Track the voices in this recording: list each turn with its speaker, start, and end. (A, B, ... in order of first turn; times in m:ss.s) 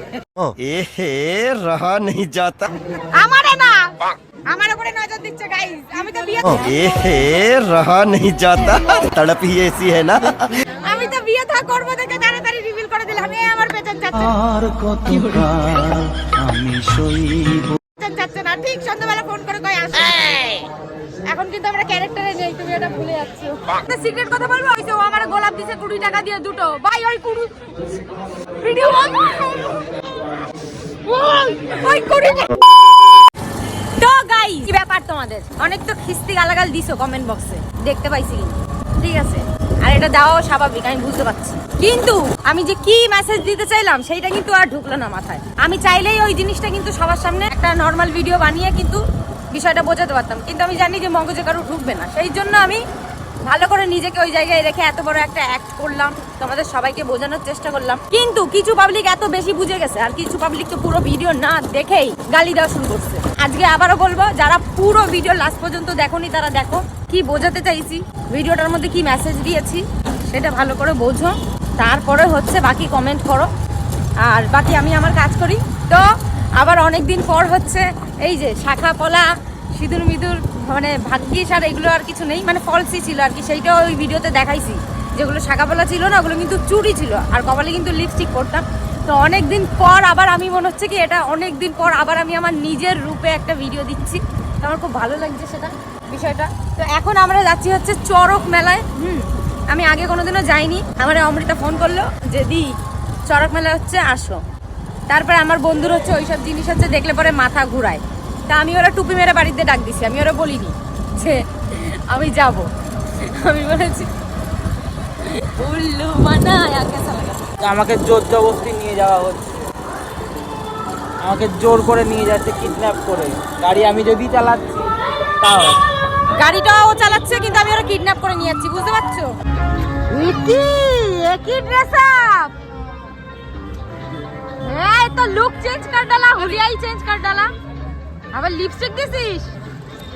0:00.5-0:02.7 A
0:03.2-0:03.8 B
0:04.5-0:06.7 B
0:06.5-0:10.6 A
0:10.8-0:14.3 B
0:14.4-0:17.7 C
0:18.0-0:20.6 B
0:21.3-0:27.5 B
0:28.6-0:29.7 B
0:31.1-0:32.6 B
0:34.0-0:49.0 B
0:49.5-0:52.8 B
0:53.5-1:13.5 B
1:14.2-1:42.7 B
1:43.3-1:44.4 B
1:45.1-1:54.1 B
1:55.2-1:57.5 B
1:57.6-1:59.7 D
2:01.2-2:04.9 D
2:05.4-2:05.8 D
2:06.4-2:09.3 B
2:10.1-2:12.5 B
2:14.6-2:17.5 B
2:18.3-2:19.5 B